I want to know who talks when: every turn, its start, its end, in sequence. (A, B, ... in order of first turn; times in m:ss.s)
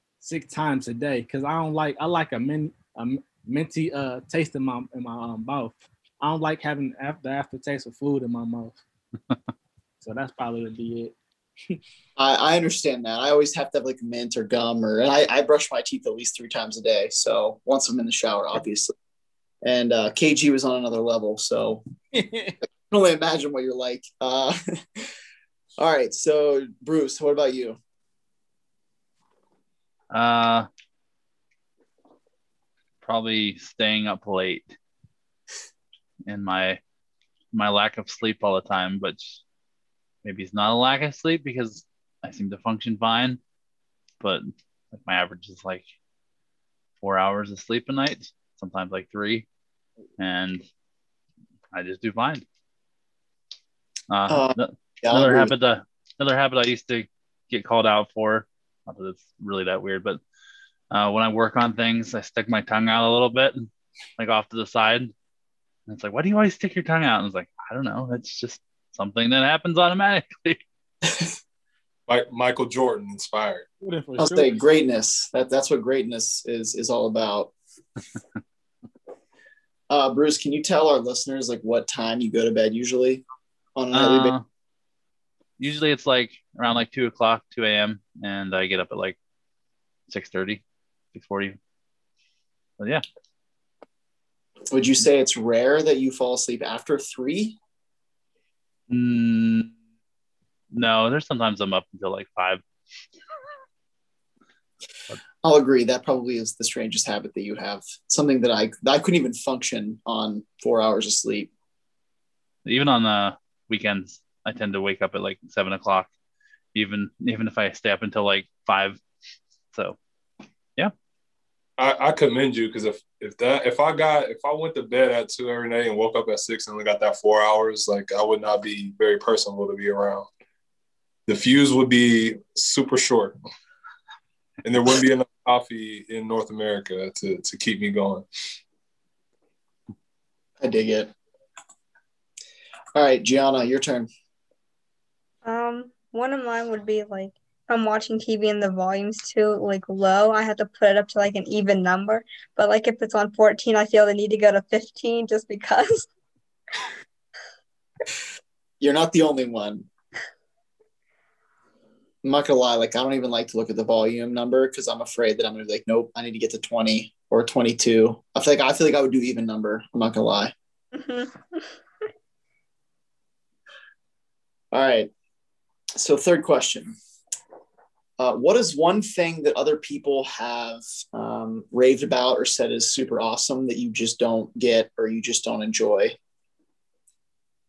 0:00.2-0:08.8 A
0:10.0-0:11.1 A
0:12.2-0:18.9 B
0:19.6-0:21.8 B
0:22.1-0:22.6 A
0:22.9-0:25.1 B
0:25.8-0:27.8 B
0:30.1-0:30.7 C
0:33.0-0:34.7 C
0:36.3-0:36.8 C
0:37.5-0:39.4 C
0:40.2-0:43.4 C
0:44.2-0:45.8 C
0:47.0-0:49.5 C
0:50.2-0:50.6 C
0:51.7-0:52.4 C
0:54.1-1:00.2 C
0:54.3-0:55.5 B
1:00.9-1:03.7 C
1:04.2-1:05.1 C
1:05.9-1:10.6 C
1:12.1-1:13.6 D
1:13.8-1:14.5 A
1:14.2-1:17.5 B
1:19.9-1:23.2 B
1:23.8-1:24.3 B
1:23.9-1:24.4 C
1:25.6-1:29.2 C
1:30.1-1:30.6 C
1:31.1-1:31.6 C
1:34.7-1:37.6 B
1:38.9-1:39.7 C
1:40.7-1:42.6 C
1:45.4-1:51.5 B
1:52.6-1:56.1 C
1:56.8-1:59.0 C
2:01.8-2:10.3 D
2:11.3-2:13.4 D
2:14.6-2:18.2 D
2:20.6-2:21.1 B
2:23.0-2:24.1 B
2:25.4-2:36.1 E
2:38.8-2:39.9 B
2:42.2-2:50.5 B
2:51.0-2:51.6 E
2:54.7-2:55.1 B
2:56.0-2:57.0 B
2:58.2-3:06.2 B